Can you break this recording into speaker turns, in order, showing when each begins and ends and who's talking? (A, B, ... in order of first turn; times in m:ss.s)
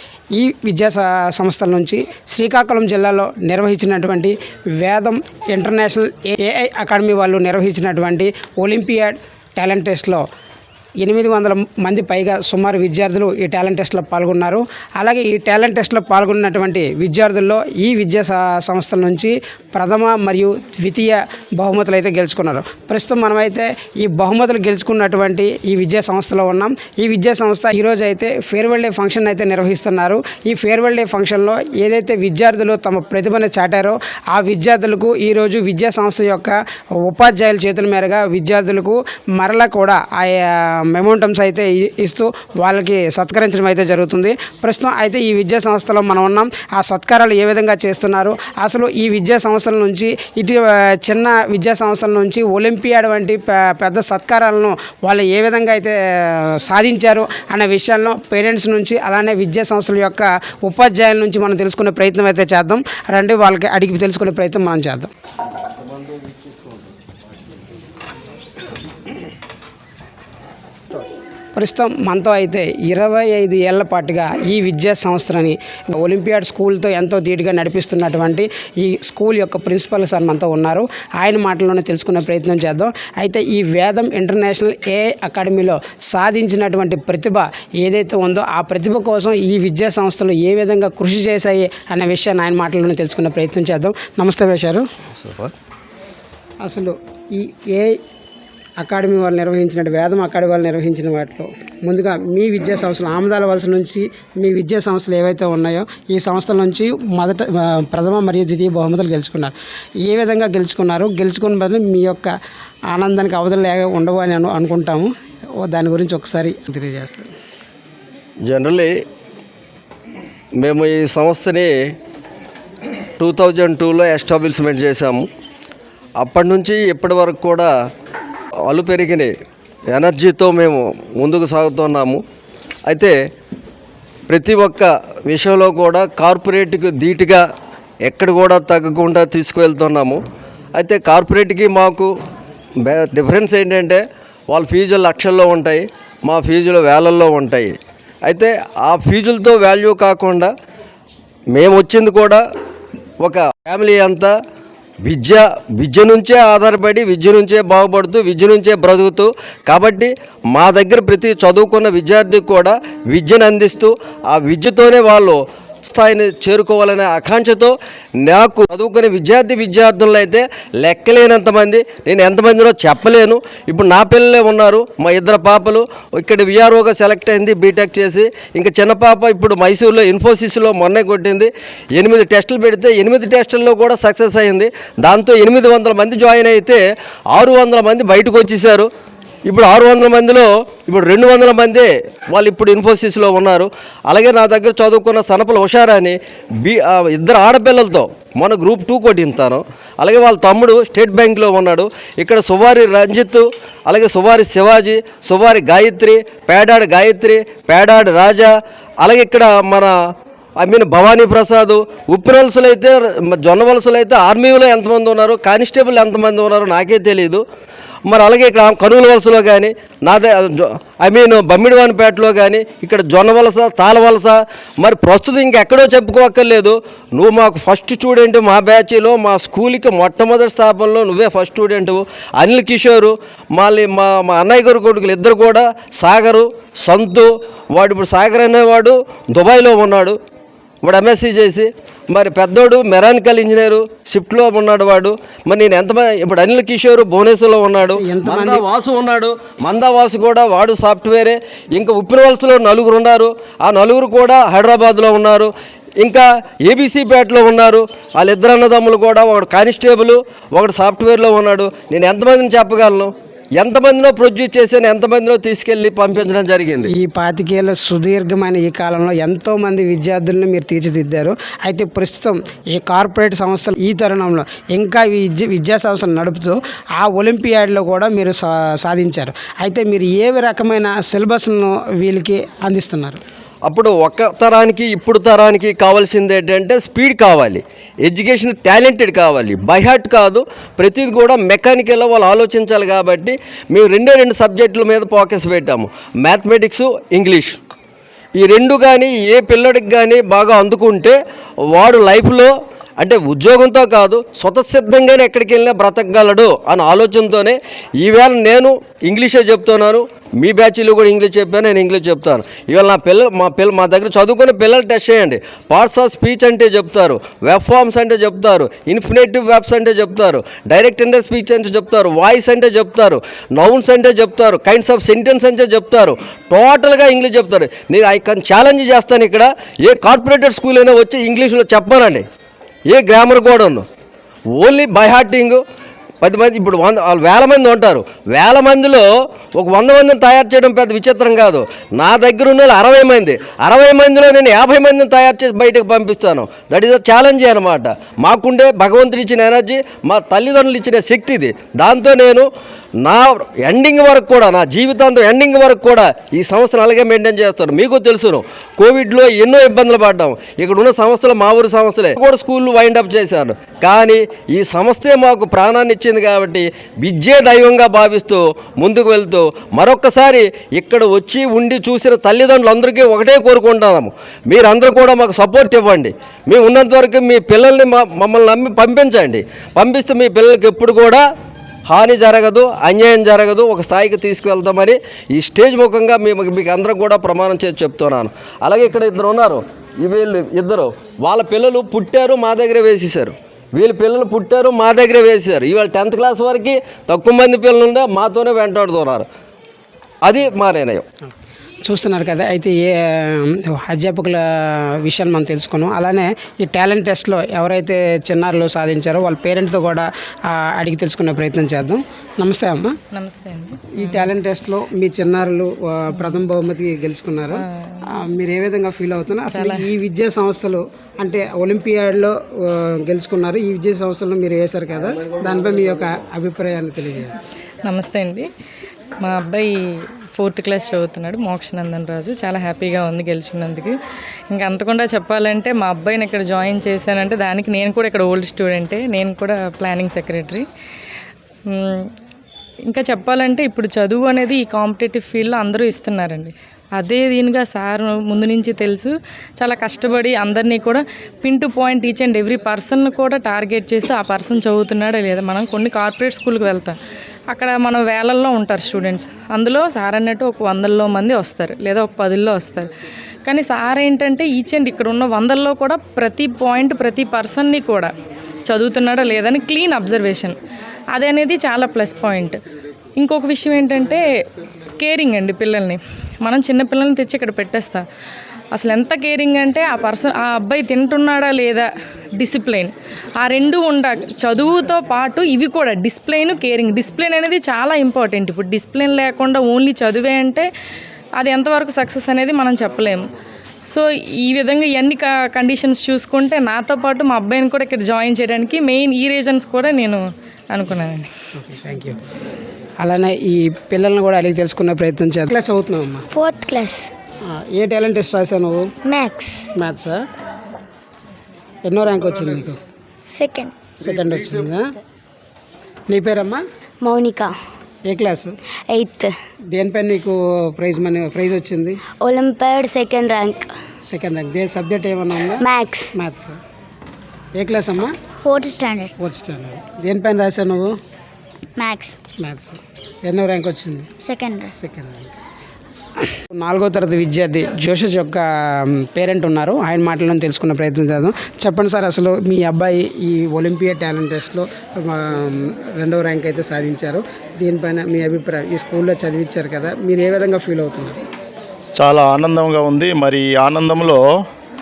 0:00.3-0:10.2 A
0:11.0-1:05.1 A
1:11.6-1:34.8 A
1:35.2-1:35.5 B
1:36.6-1:38.0 A
1:38.8-1:49.5 A
1:50.0-1:52.3 A
1:52.9-1:57.3 A
1:58.5-1:58.9 B
2:00.6-2:01.7 B
2:03.2-2:05.2 B
2:06.2-2:07.7 B
2:08.7-2:09.3 B
2:09.9-2:12.2 B
2:12.9-2:13.1 B
2:14.3-2:17.4 B
2:18.1-2:20.2 B
2:20.8-2:22.1 B
2:22.8-2:30.5 B
2:31.5-2:32.4 B
2:33.2-2:34.3 B
2:35.1-3:08.9 B
3:09.5-3:29.9 B
3:30.6-3:37.4 B
3:38.1-4:00.2 B
4:00.8-4:26.9 B
4:07.9-4:08.6 A
4:26.9-4:43.2 A
4:43.6-4:57.6 B
4:58.4-5:01.2 B
5:01.7-5:32.2 B
5:32.9-5:33.8 B
5:34.6-5:35.6 B
5:36.2-5:52.5 B
5:53.0-6:21.2 B
6:21.9-6:39.2 B
6:40.2-6:41.0 B
6:41.9-6:52.9 A
6:53.1-6:54.3 C
6:53.9-7:07.3 A
6:56.1-6:56.4 C
6:57.6-6:58.0 C
6:59.5-6:59.9 C
7:07.8-7:08.5 C
7:09.2-7:09.7 C
7:10.4-7:13.9 C
7:14.5-7:20.6 C
7:21.7-7:22.1 C
7:22.9-7:37.0 C
7:37.5-7:42.9 C
7:43.4-7:48.1 C
7:48.7-7:50.6 C
7:51.1-7:52.6 C
7:53.2-7:54.2 C
7:55.0-7:58.0 C
7:58.8-8:01.9 C
8:02.4-8:10.6 C
8:11.4-8:13.3 C
8:13.9-8:20.2 C
8:20.7-8:21.2 C
8:21.5-8:22.2 A
8:23.0-8:26.3 A
8:26.3-8:27.1 D
8:27.5-8:28.9 A
8:29.0-8:29.7 D
8:29.8-8:30.2 A
8:31.8-8:32.8 A
8:33.3-8:33.9 D
8:34.0-8:35.0 A
8:36.1-8:36.6 A
8:37.0-8:37.5 D
8:38.1-8:38.6 A
8:38.9-8:39.3 D
8:39.7-8:42.0 A
8:42.2-8:43.7 D
8:44.1-8:46.6 A
8:45.6-8:46.1 D
8:47.6-8:48.1 A
8:48.4-8:49.1 D
8:49.2-8:50.9 A
8:51.8-8:52.2 D
8:52.4-8:54.1 A
8:54.2-8:54.7 D
8:54.8-8:55.4 A
8:56.3-9:11.2 A
9:11.9-9:14.4 E